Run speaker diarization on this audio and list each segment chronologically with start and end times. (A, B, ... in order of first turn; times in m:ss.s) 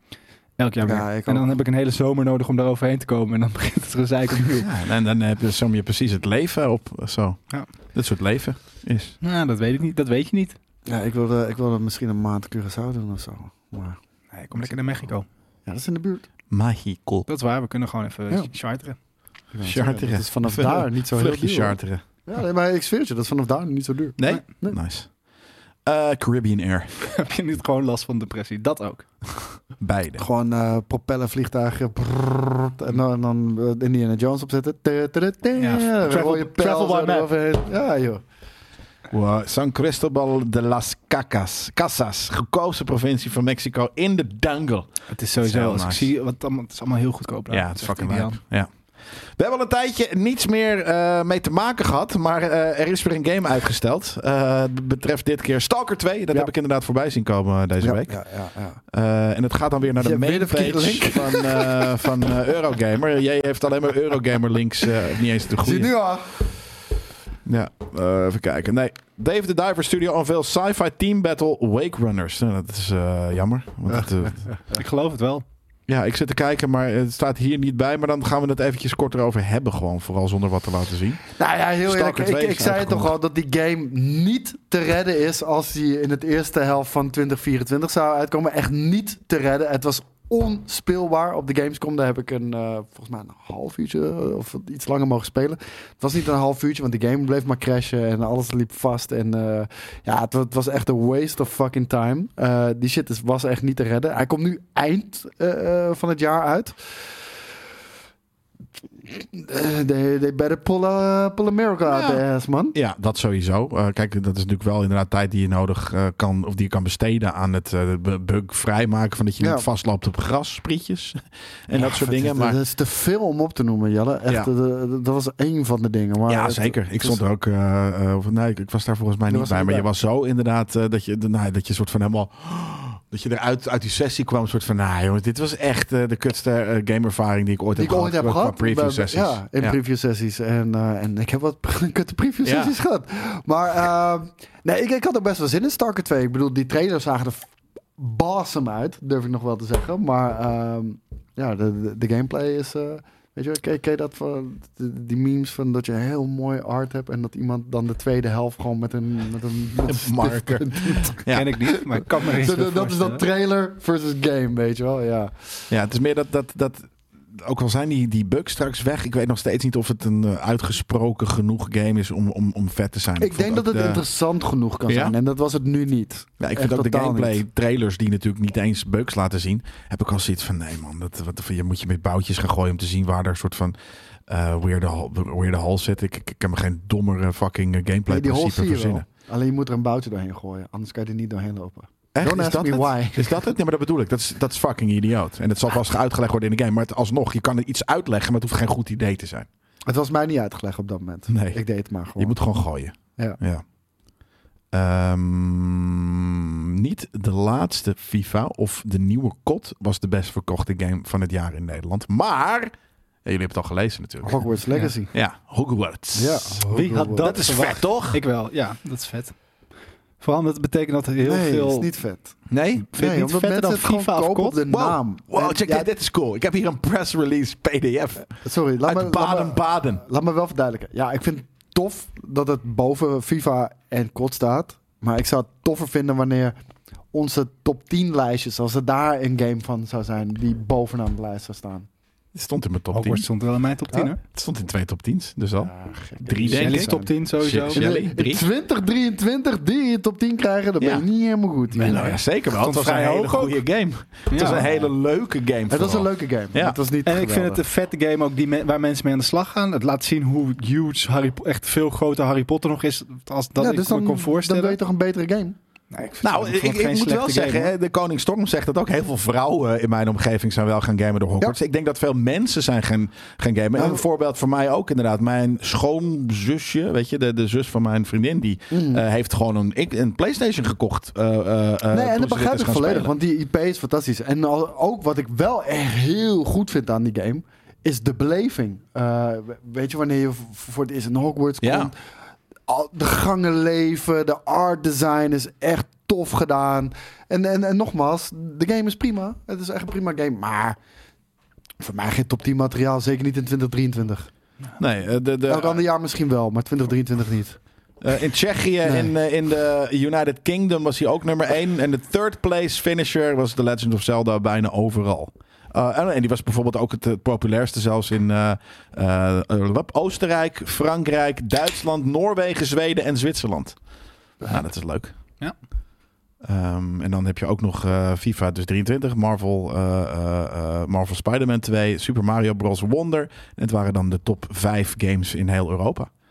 0:00.6-0:04.7 A
0:00.8-0:01.5 B
0:04.6-0:09.2 C
0:09.2-0:10.6 A
0:10.9-0:14.0 B
0:14.3-0:15.3 A
0:15.7-0:16.3 B
0:16.5-0:17.3 C
0:17.3-0:19.0 A
0:19.5-0:24.8 B
0:19.6-0:22.0 C
0:24.2-0:25.1 C
0:25.9-0:26.9 C
0:27.0-0:29.5 A
0:29.8-0:30.2 C
0:30.2-0:38.2 B
0:35.6-0:37.3 A
0:39.1-0:46.1 C
0:45.1-0:48.4 A
0:47.5-0:48.7 C
0:49.4-0:58.2 C
0:57.8-0:58.8 B
0:58.9-1:05.9 C
1:00.0-1:02.1 B
1:05.6-1:06.5 B
1:07.4-1:14.5 C
1:14.7-1:15.4 A
1:15.9-1:21.2 C
1:21.4-1:46.8 B
1:21.8-1:23.1 C
1:49.1-1:52.8 B
1:51.9-1:52.2 C
1:52.7-2:02.6 C
1:59.4-1:59.7 B
2:01.7-2:07.2 B
2:06.3-2:19.8 C
2:09.3-2:09.9 B
2:17.8-2:41.2 B
2:22.4-2:22.7 C
2:39.8-2:41.5 C
2:41.3-2:43.2 A
2:41.8-2:45.5 B
2:45.7-2:54.0 C
2:53.2-2:57.4 B
2:54.9-2:55.2 C
2:56.4-3:03.8 C
3:04.3-3:09.0 C
3:08.1-3:13.4 B
3:12.1-3:19.5 C
3:19.9-3:22.4 B
3:21.3-3:21.6 C
3:22.2-3:23.6 C
3:24.7-3:32.7 C
3:33.2-3:34.5 C
3:34.2-3:35.1 B
3:35.1-3:36.6 C
3:36.2-3:37.4 B
3:36.7-3:39.4 A
3:37.2-3:38.2 C
3:40.2-3:41.9 A
3:41.2-3:42.4 B
3:42.5-3:42.9 C
3:42.8-3:44.6 A
3:43.0-3:45.9 B
3:44.7-3:50.0 C
3:48.4-3:56.6 B
3:57.1-4:01.9 B
4:02.4-4:03.3 C
4:02.9-4:04.2 A
4:04.3-4:08.4 C
4:05.6-4:07.1 B
4:06.5-4:07.9 A
4:07.7-4:12.2 B
4:10.8-4:11.0 C
4:11.8-4:13.6 A
4:11.8-4:16.8 C
4:14.3-4:14.8 A
4:15.7-4:17.6 B
4:17.1-4:24.8 A
4:23.6-4:25.6 B
4:25.9-4:27.7 A
4:26.2-4:43.1 C
4:33.8-4:34.0 B
4:38.7-4:39.0 B
4:41.9-4:52.0 B
4:51.6-4:51.9 C
4:52.7-5:00.8 B
5:01.8-5:04.3 B
5:04.8-5:05.8 C
5:05.5-5:07.6 B
5:08.0-5:23.8 C
5:08.8-5:09.1 B
5:24.4-5:25.2 C
5:26.4-5:36.1 C